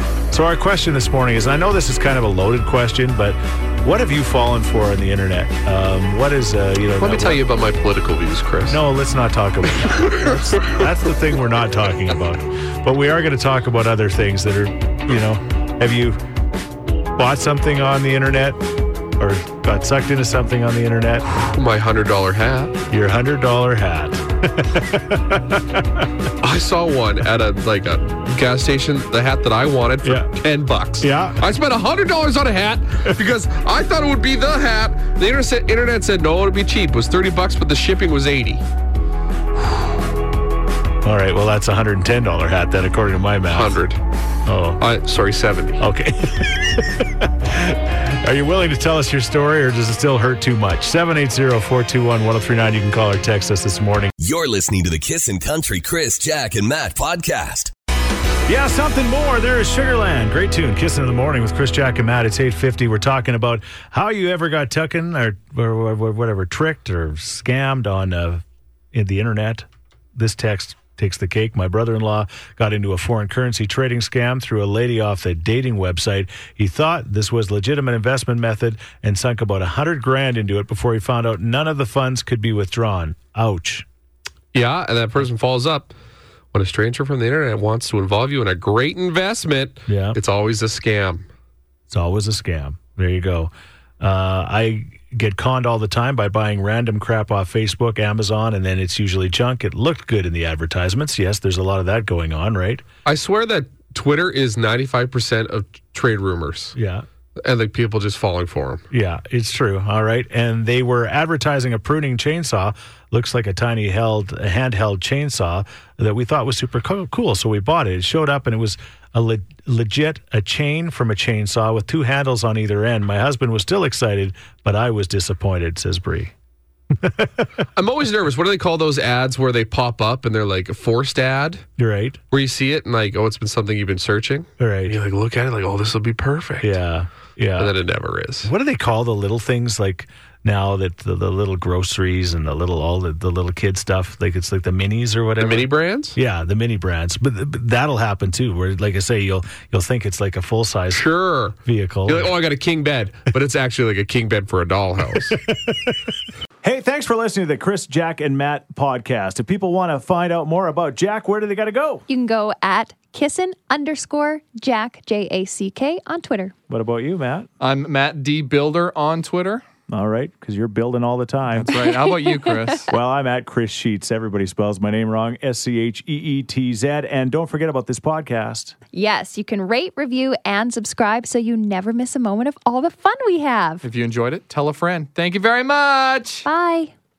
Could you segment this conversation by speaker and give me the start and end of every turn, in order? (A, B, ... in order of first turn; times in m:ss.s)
0:00.3-0:07.4 A
0:07.0-0:08.8 B
0:08.7-0:16.2 A
0:09.8-0:10.8 B
0:17.2-0:18.6 A
0:19.2-0:21.3 A
0:21.4-0:22.8 B
0:22.9-0:26.1 A
0:26.4-0:38.6 B
0:30.0-0:30.3 A
0:31.0-0:31.4 A
0:41.0-0:43.8 A
0:43.5-0:44.0 B
0:44.4-0:44.8 A
0:44.8-0:45.8 B
0:45.8-0:54.1 A
0:54.2-0:57.7 C
0:58.5-1:23.8 A
1:24.5-1:25.9 B
1:26.5-1:31.3 B
1:29.9-1:30.2 A
1:31.9-1:42.8 A
1:43.0-1:46.7 B
1:46.7-1:47.0 A
1:47.4-1:48.8 B
1:48.9-2:06.3 A
2:06.9-2:07.5 A
2:07.8-2:11.6 B
2:11.8-2:12.2 A
2:12.3-2:16.8 B
2:14.6-2:14.9 A
2:16.6-2:17.7 A
2:17.6-2:18.5 B
2:18.4-2:31.0 A
2:25.4-2:26.2 B
2:30.9-2:31.6 B
2:31.6-2:32.3 A
2:32.1-2:35.4 B
2:35.3-2:42.0 A
2:42.1-2:46.5 D
2:46.7-2:47.5 A
2:47.6-2:49.6 E
2:49.9-2:51.8 A
2:51.5-2:52.9 E
2:51.7-2:52.8 D
2:52.9-2:58.7 A
2:58.9-3:03.9 D
3:03.8-3:06.5 E
3:06.4-3:06.9 D